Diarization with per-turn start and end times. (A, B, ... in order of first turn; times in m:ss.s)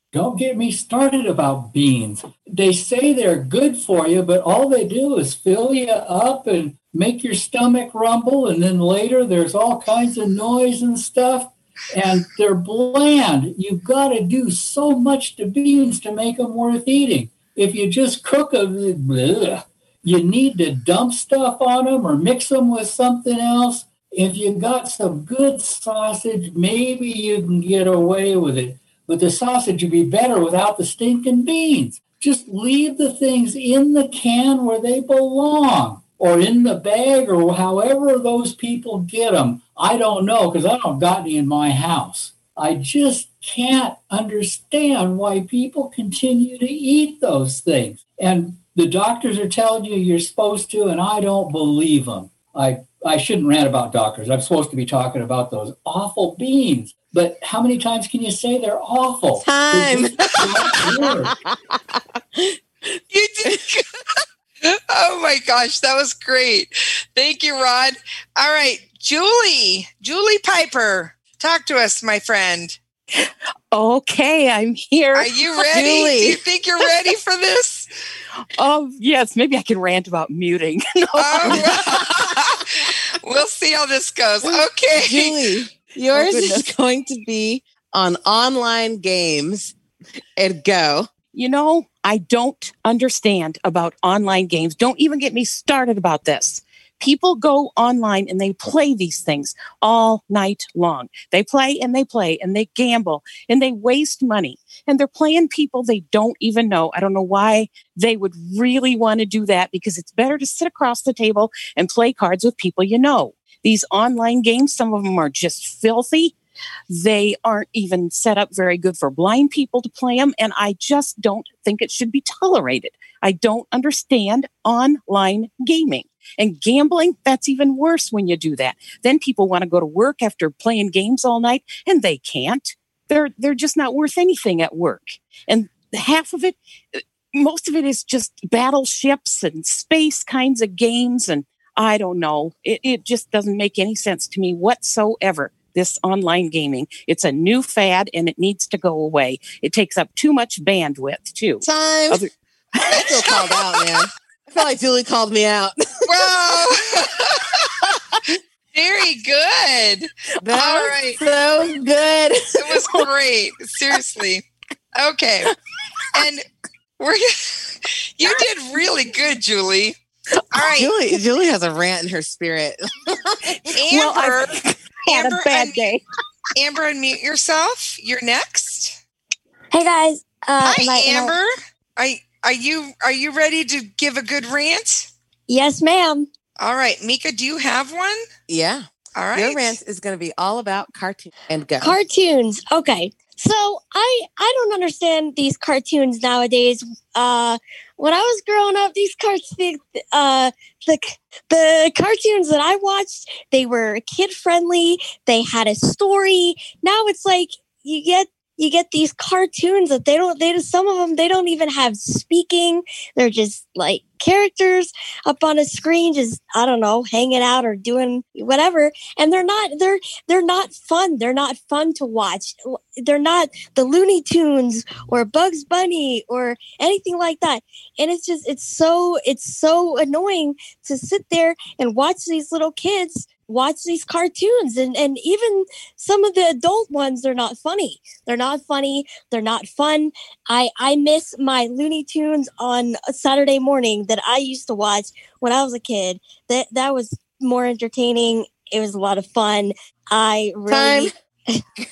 0:00.1-1:01.3 A
0:59.4-1:01.4 B
1:03.1-1:03.8 C
1:04.6-1:12.8 C
1:13.1-1:15.3 D
1:15.2-1:17.9 C
1:15.7-1:16.4 B
1:18.6-1:21.9 D
1:21.2-1:25.4 C
1:24.4-1:29.7 B
1:26.2-1:26.6 D
1:30.4-1:31.1 B
1:31.3-1:56.3 D
1:56.9-2:32.3 D
2:31.6-2:32.2 B
2:32.8-2:35.8 B
2:36.1-2:37.7 C
2:38.7-2:41.2 C
2:40.4-2:42.7 B
2:42.6-2:44.4 C
2:45.0-2:45.5 C
2:46.1-2:46.4 C
2:47.0-2:47.6 C
2:48.2-2:50.0 C
2:50.5-2:50.9 C
2:50.6-2:53.8 B
2:53.8-2:56.0 C
2:56.6-2:59.0 C
2:59.7-3:01.4 E
3:00.6-3:05.1 C
3:05.5-3:06.3 E
3:06.6-3:08.2 C
3:08.5-3:12.0 B
3:09.2-3:09.8 C
3:11.8-4:11.6 E
4:10.7-4:11.1 B